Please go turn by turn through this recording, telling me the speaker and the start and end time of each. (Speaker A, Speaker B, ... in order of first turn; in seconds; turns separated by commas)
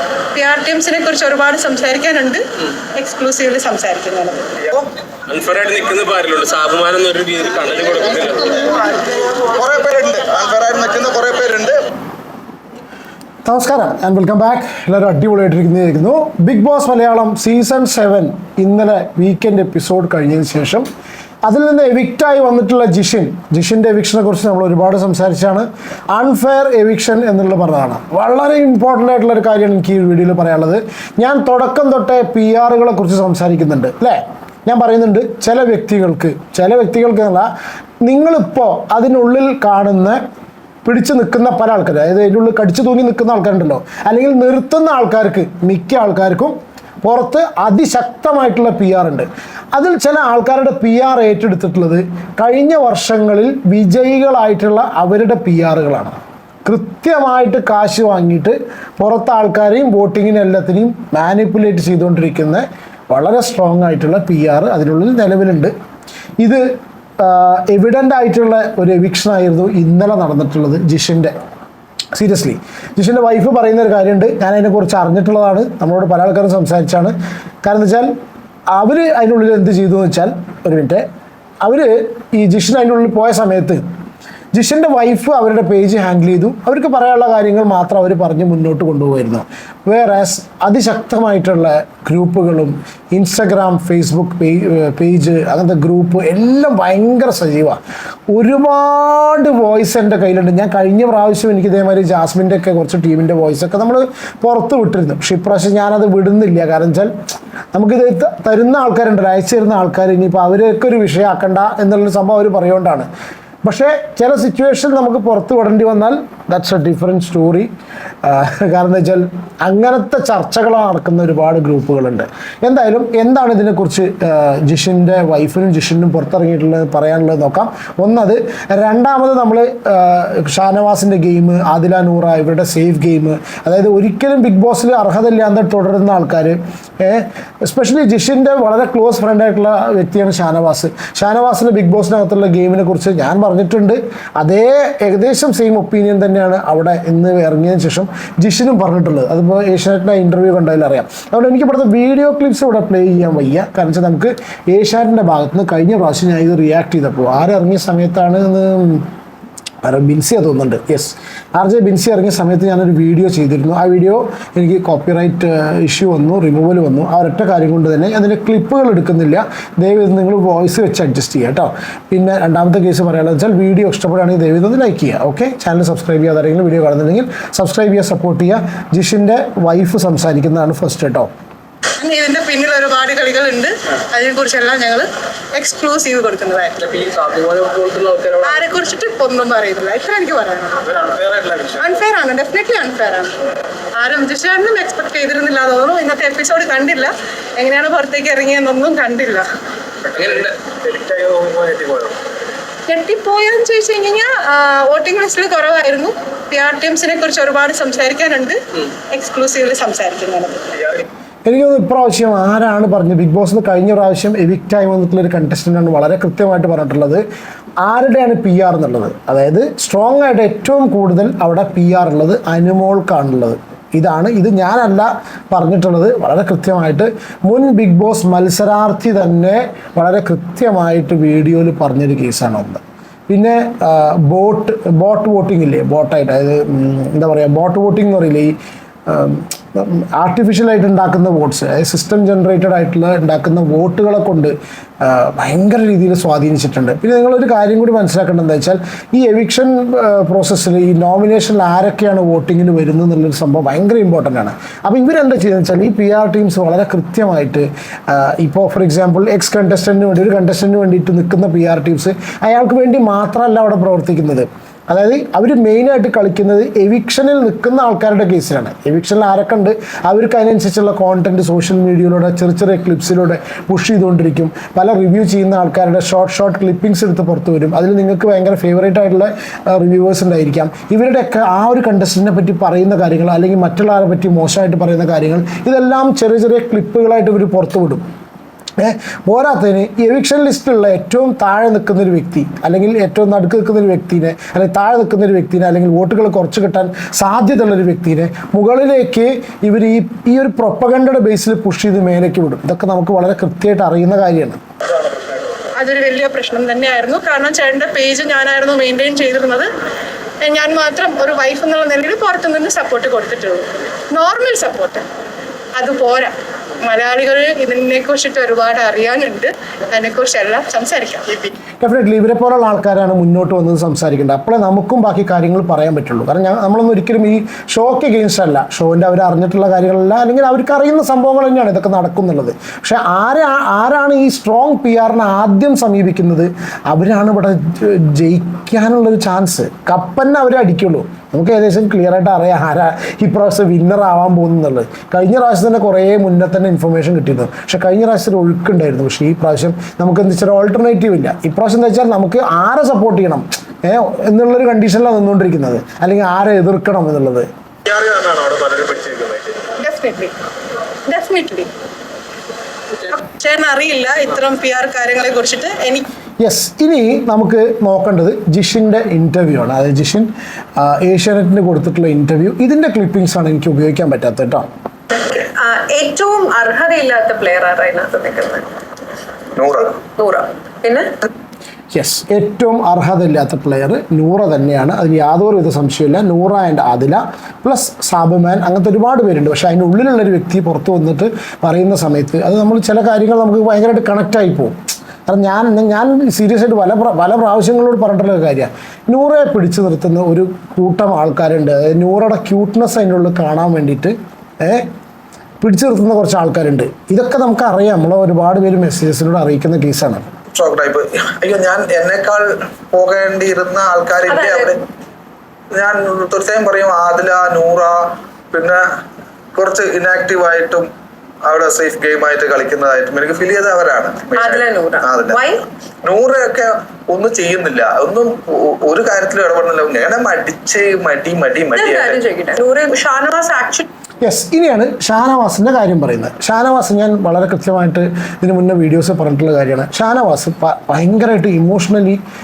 Speaker A: 0.3-2.4, Speaker A: 2.9-4.5, Speaker B: 5.3-8.9, Speaker C: 9.5-11.8, Speaker D: 13.4-20.9, Speaker D: 21.4-37.5, Speaker D: 38.0-40.2, Speaker D: 40.8-65.7, Speaker D: 67.2-71.3, Speaker D: 72.1-78.1, Speaker D: 78.7-81.0, Speaker D: 81.6-83.8, Speaker D: 84.5-97.8, Speaker D: 98.3-107.1, Speaker D: 107.7-113.1, Speaker D: 113.6-117.7, Speaker D: 118.2-159.1, Speaker D: 159.8-181.3, Speaker A: 182.0-186.8, Speaker B: 186.8-188.6, Speaker A: 188.4-190.9, Speaker B: 191.0-191.7, Speaker A: 191.8-193.3, Speaker A: 193.9-199.4, Speaker B: 200.1-202.1, Speaker A: 202.9-208.6, Speaker A: 209.1-210.7, Speaker D: 211.4-217.2, Speaker D: 217.8-238.5, Speaker D: 239.1-288.0, Speaker D: 288.8-304.6, Speaker A: 305.8-309.7, Speaker A: 310.4-315.0, Speaker A: 315.7-321.5, Speaker D: 321.8-357.5, Speaker C: 357.9-359.5, Speaker A: 359.8-360.3, Speaker A: 361.0-361.7, Speaker A: 363.0-366.1, Speaker D: 366.4-374.6, Speaker E: 375.1-378.7, Speaker C: 379.6-380.0, Speaker E: 380.1-381.1, Speaker D: 381.9-404.9, Speaker D: 405.6-410.2, Speaker C: 410.5-414.8, Speaker E: 414.3-414.8, Speaker C: 415.7-418.8, Speaker C: 419.5-420.9, Speaker C: 421.4-425.4, Speaker E: 424.3-425.6, Speaker C: 426.0-432.2, Speaker E: 431.7-433.9, Speaker D: 434.2-442.2